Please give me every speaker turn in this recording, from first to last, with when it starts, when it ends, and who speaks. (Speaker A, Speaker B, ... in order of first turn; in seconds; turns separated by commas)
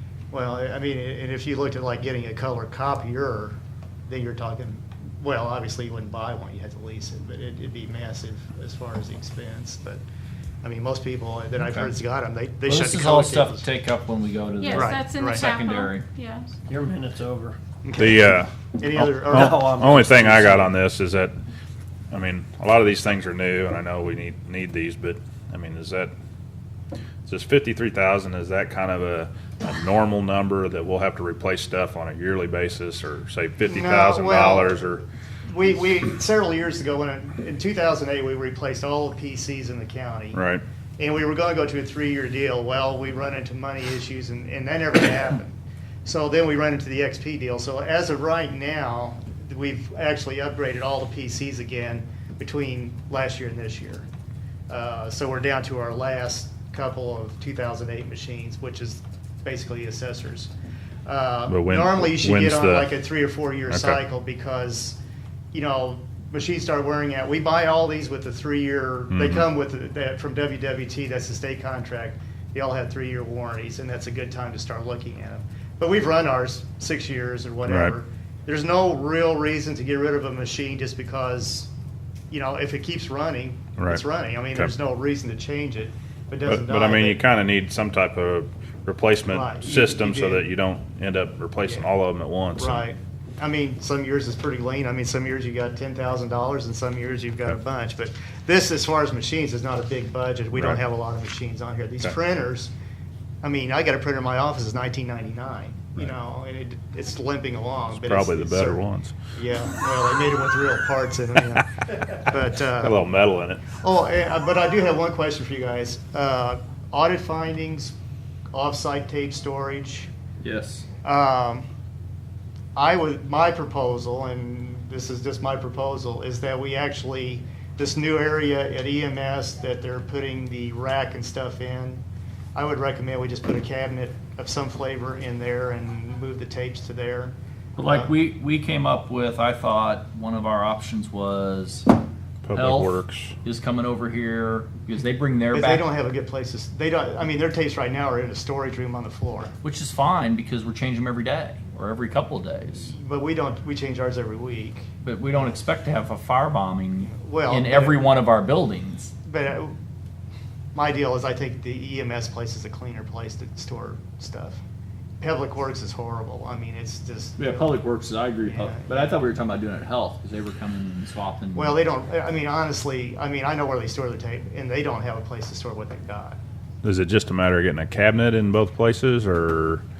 Speaker A: 0.3-10.0, Speaker A: 10.6-13.7, Speaker B: 12.6-16.1, Speaker C: 14.6-16.5, Speaker A: 14.7-15.5, Speaker D: 16.7-17.6, Speaker A: 17.8-19.7, Speaker E: 18.0-21.3, Speaker D: 19.2-20.7, Speaker E: 22.1-26.1, Speaker E: 27.2-35.0, Speaker A: 33.7-34.8, Speaker A: 35.5-40.4, Speaker E: 40.3-40.6, Speaker A: 41.0-54.0, Speaker A: 54.7-60.5, Speaker A: 61.0-65.0, Speaker E: 61.5-62.9, Speaker E: 63.7-64.0, Speaker A: 65.5-81.7, Speaker E: 69.1-69.5, Speaker E: 77.7-77.9, Speaker A: 82.3-87.2, Speaker E: 83.8-84.7, Speaker E: 86.4-92.9, Speaker A: 89.3-90.4, Speaker A: 92.6-102.7, Speaker E: 100.5-100.8, Speaker A: 103.4-108.8, Speaker E: 107.9-109.1, Speaker A: 109.3-113.0, Speaker E: 112.8-113.7, Speaker A: 113.8-117.9, Speaker A: 118.5-120.1, Speaker B: 120.4-120.8, Speaker A: 121.0-121.7, Speaker A: 122.7-132.0, Speaker A: 132.5-138.1, Speaker B: 137.8-141.9, Speaker E: 142.4-143.3, Speaker B: 142.5-145.9, Speaker A: 145.5-149.5, Speaker B: 149.6-152.9, Speaker A: 152.9-154.9, Speaker B: 155.0-159.1, Speaker A: 157.1-158.1, Speaker A: 159.2-159.7, Speaker A: 160.7-164.6, Speaker A: 165.2-167.8, Speaker B: 167.4-171.8, Speaker A: 168.4-169.2, Speaker A: 171.5-176.4, Speaker E: 176.8-179.8